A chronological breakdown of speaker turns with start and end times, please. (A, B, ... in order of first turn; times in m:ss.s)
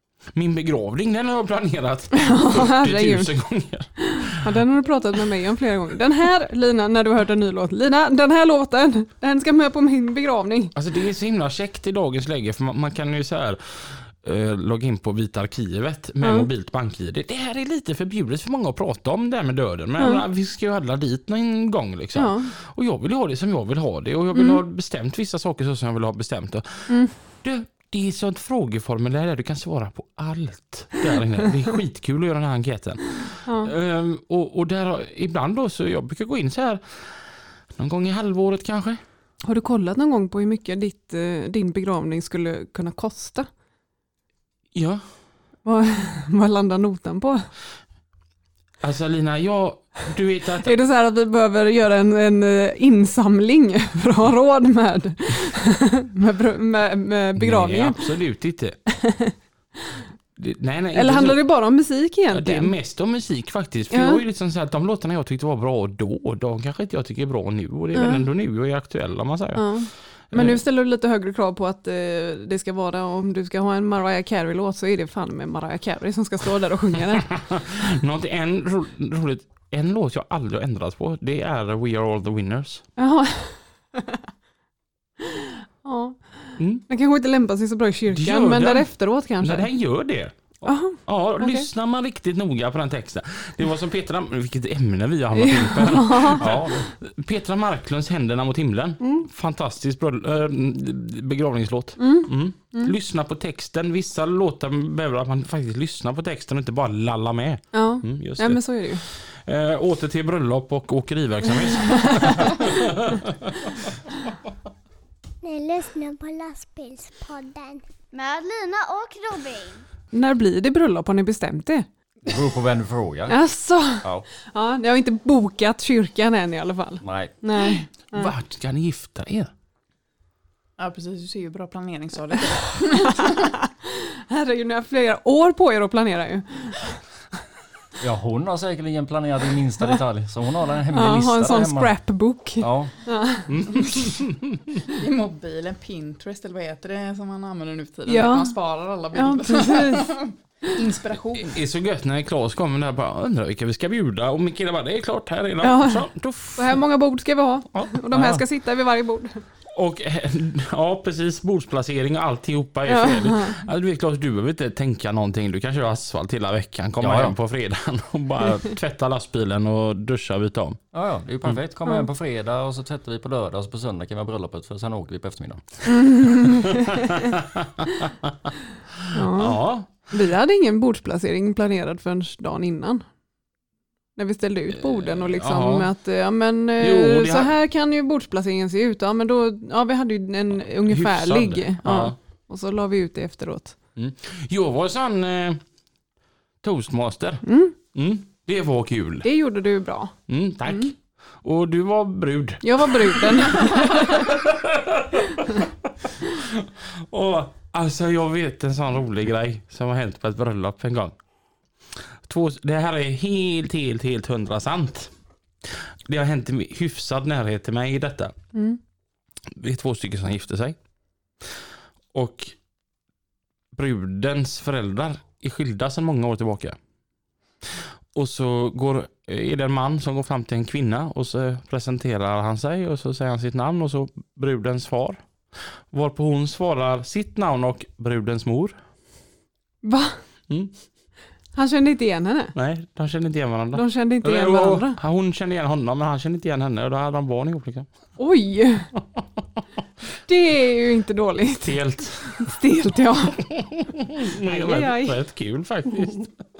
0:00.3-0:04.5 A
0:02.1-0:03.3 B
0:04.0-0:10.7 B
0:10.7-0:39.0 A
0:16.2-0:16.5 B
0:20.0-0:20.2 B
0:22.1-0:22.5 B
0:24.3-0:24.6 B
0:33.4-0:33.7 B
0:39.4-0:43.5 B
0:44.7-0:45.0 A
0:45.6-0:47.5 B
0:48.8-0:50.7 A
0:50.6-0:58.0 B
0:57.4-0:58.8 A
0:58.9-0:59.3 B
1:00.4-1:01.4 A
1:00.9-1:02.7 B
1:02.3-1:10.6 A
1:03.9-1:04.2 B
1:07.9-1:08.2 B
1:09.6-1:17.3 B
1:17.3-1:22.8 A
1:23.0-1:24.2 B
1:25.2-1:29.7 B
1:26.6-1:26.8 A
1:28.1-1:53.5 A
1:30.6-1:31.7 B
1:35.3-1:36.4 B
1:36.4-1:36.9 C
1:39.0-1:39.3 B
1:42.0-1:42.9 B
1:47.7-1:49.0 B
1:52.0-1:52.3 B
1:55.4-1:59.8 D
2:00.1-2:01.9 B
2:02.2-2:03.4 C
2:03.3-2:08.3 B
2:07.0-2:07.3 C
2:08.1-2:09.5 A
2:10.8-2:13.4 E
2:12.8-2:17.0 B
2:18.0-2:21.9 C
2:20.9-2:23.5 B
2:22.6-2:22.9 C
2:23.5-2:24.7 A
2:25.0-2:31.6 E
2:28.1-2:28.6 B
2:29.1-2:30.1 B
2:31.3-2:36.8 A
2:35.6-2:39.4 B
2:38.1-2:38.4 C
2:39.7-2:50.8 A
2:42.9-2:43.6 B
2:47.0-2:47.4 C
2:50.9-2:55.7 C
2:55.9-2:57.1 B
2:59.1-3:03.0 B
2:59.3-2:59.9 A
3:04.2-3:13.8 B
3:04.8-3:05.9 A
3:06.8-3:07.5 A
3:10.8-3:12.1 A
3:14.0-3:15.6 A
3:16.6-3:19.3 A
3:17.4-3:17.7 B
3:19.2-3:20.1 B
3:20.3-3:25.4 A
3:20.6-3:20.9 B
3:22.6-3:24.3 B
3:26.2-3:31.1 A
3:31.9-3:35.1 A
3:35.6-3:38.3 A
3:38.5-3:38.8 B
3:39.5-3:40.8 A
3:42.1-3:42.5 A
3:43.7-3:46.8 A
3:47.6-3:58.8 A
3:59.8-4:00.2 B
4:01.5-4:02.5 B
4:02.5-4:07.9 A
4:03.7-4:05.0 B
4:08.2-4:08.9 B
4:10.3-4:13.4 B
4:11.6-4:12.6 A
4:13.4-4:16.4 A
4:14.4-4:15.2 B